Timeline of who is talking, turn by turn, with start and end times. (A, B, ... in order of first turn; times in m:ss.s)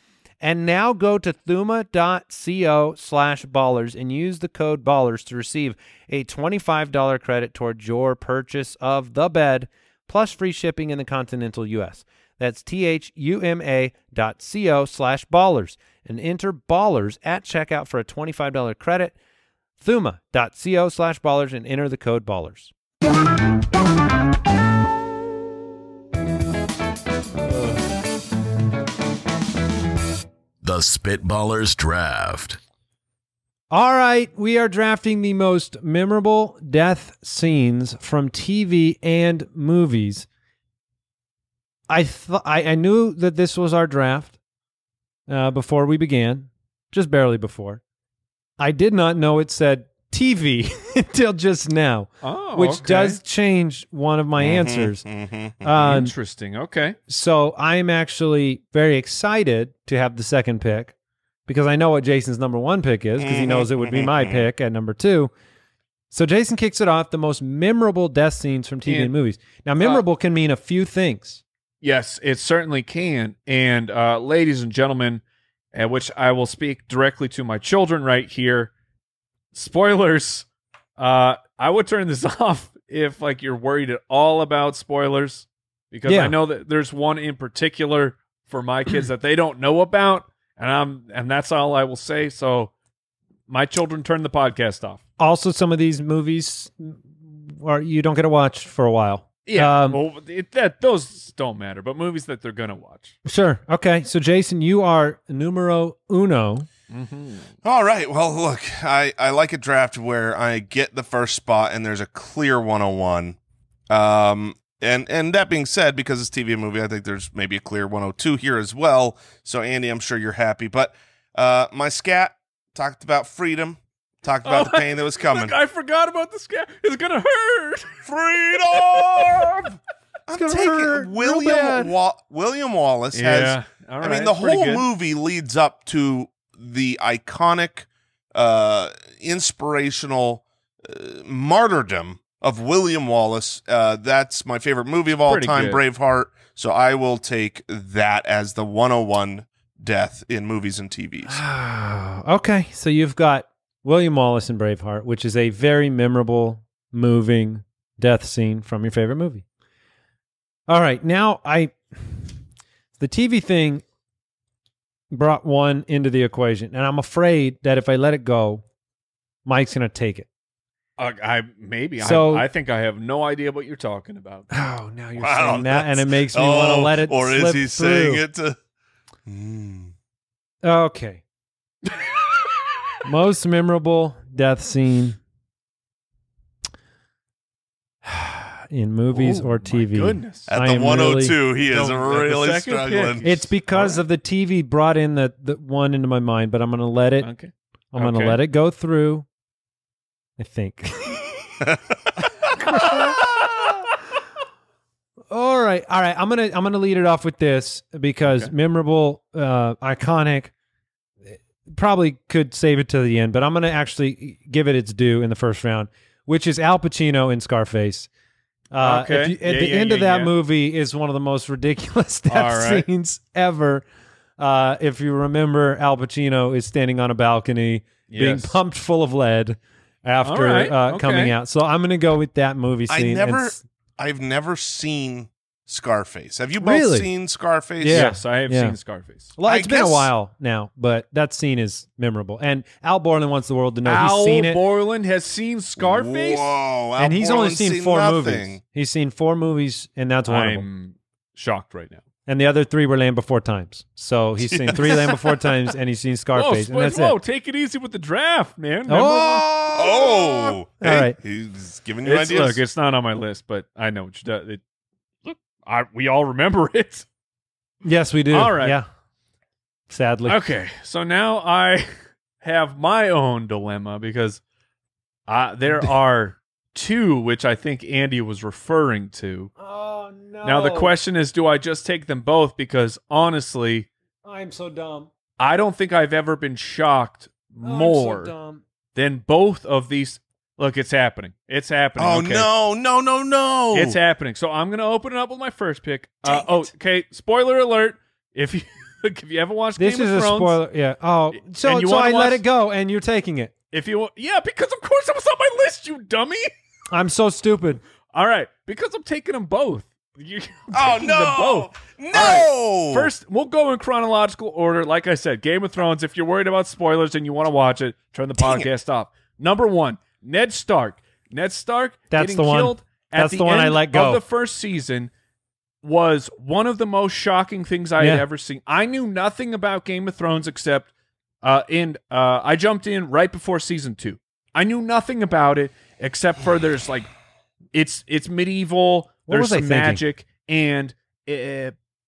0:00.4-0:19.1 A
0:19.8-0:22.7 A
0:30.6-0:32.6 B
0:33.7-0:40.3 A
0:41.9-0:44.4 A
0:45.3-0:47.8 A
0:48.6-0:55.0 A
0:52.2-0:53.2 C
0:54.4-0:56.0 D
0:55.6-0:56.1 A
0:55.8-0:57.0 C
0:57.1-1:00.9 A
1:01.5-1:05.3 A
1:03.2-1:04.4 D
1:06.1-1:11.4 A
1:08.9-1:09.1 C
1:11.8-1:15.2 C
1:15.7-1:18.7 C
1:19.5-1:20.5 C
1:21.0-1:32.7 C
1:26.1-1:26.4 A
1:33.5-1:35.0 C
1:35.2-1:40.0 A
1:39.5-1:43.1 C
1:43.2-1:46.7 A
1:46.9-1:47.5 C
1:47.6-1:53.4 D
1:53.9-2:05.6 D
2:04.4-2:08.0 C
2:08.1-2:31.4 D
2:08.7-2:09.7 C
2:10.3-2:11.9 A
2:13.1-2:14.9 C
2:25.2-2:25.8 C
2:31.3-2:39.4 A
2:40.7-2:42.2 A
2:43.0-2:43.8 A
2:45.1-2:48.6 A
2:49.5-2:50.3 A
2:51.0-2:54.5 C
2:52.0-2:52.5 A
2:54.5-2:58.2 A
2:55.2-2:58.6 D
2:59.3-2:59.9 D
3:00.6-3:01.2 A
3:03.0-3:05.2 A
3:08.0-3:11.4 A
3:09.1-3:10.5 C
3:10.5-3:13.4 D
3:11.6-3:14.0 C
3:13.2-3:17.3 A
3:17.2-3:18.4 C
3:17.9-3:19.2 A
3:20.4-3:21.5 A
3:22.6-3:23.3 A
3:25.3-3:30.5 A
3:28.3-3:28.5 C
3:31.7-3:38.1 A
3:38.7-3:43.8 A
3:38.8-3:40.3 C
3:42.3-3:42.9 C
3:44.4-3:53.6 A
3:48.1-3:48.6 C
3:50.2-3:51.3 C
3:52.9-3:58.1 D
3:56.6-3:57.1 A
3:57.8-3:58.8 A
3:57.9-3:59.3 C
3:59.4-4:04.6 A
3:59.4-4:00.1 D
4:03.8-4:06.6 C
4:05.8-4:08.6 D
4:07.0-4:10.7 A
4:10.3-4:12.0 C
4:12.3-4:17.2 A
4:14.4-4:15.2 D
4:16.3-4:20.5 C
4:18.9-4:19.9 A
4:19.7-4:22.6 D
4:20.8-4:21.2 A
4:22.0-4:24.6 C
4:25.2-4:27.1 C
4:27.8-4:28.8 A
4:28.3-4:28.8 C
4:29.9-4:30.4 A
4:30.3-4:31.9 C
4:32.4-4:34.4 C
4:35.3-4:39.5 C
4:39.6-4:40.9 A
4:40.4-4:43.9 C
4:44.2-4:45.1 A
4:45.4-4:48.3 C
4:47.6-4:48.6 A
4:49.0-4:52.5 C
4:52.0-4:54.0 D
4:53.7-5:00.6 C
4:59.8-5:03.5 A
5:01.4-5:02.4 C
5:03.7-5:06.5 C
5:06.9-5:07.8 A
5:08.1-5:25.1 C
5:10.7-5:13.1 D
5:18.4-5:18.7 D
5:22.1-5:24.2 A
5:25.8-5:30.9 C
5:31.4-5:37.1 C
5:37.7-5:41.8 C
5:39.3-5:40.0 A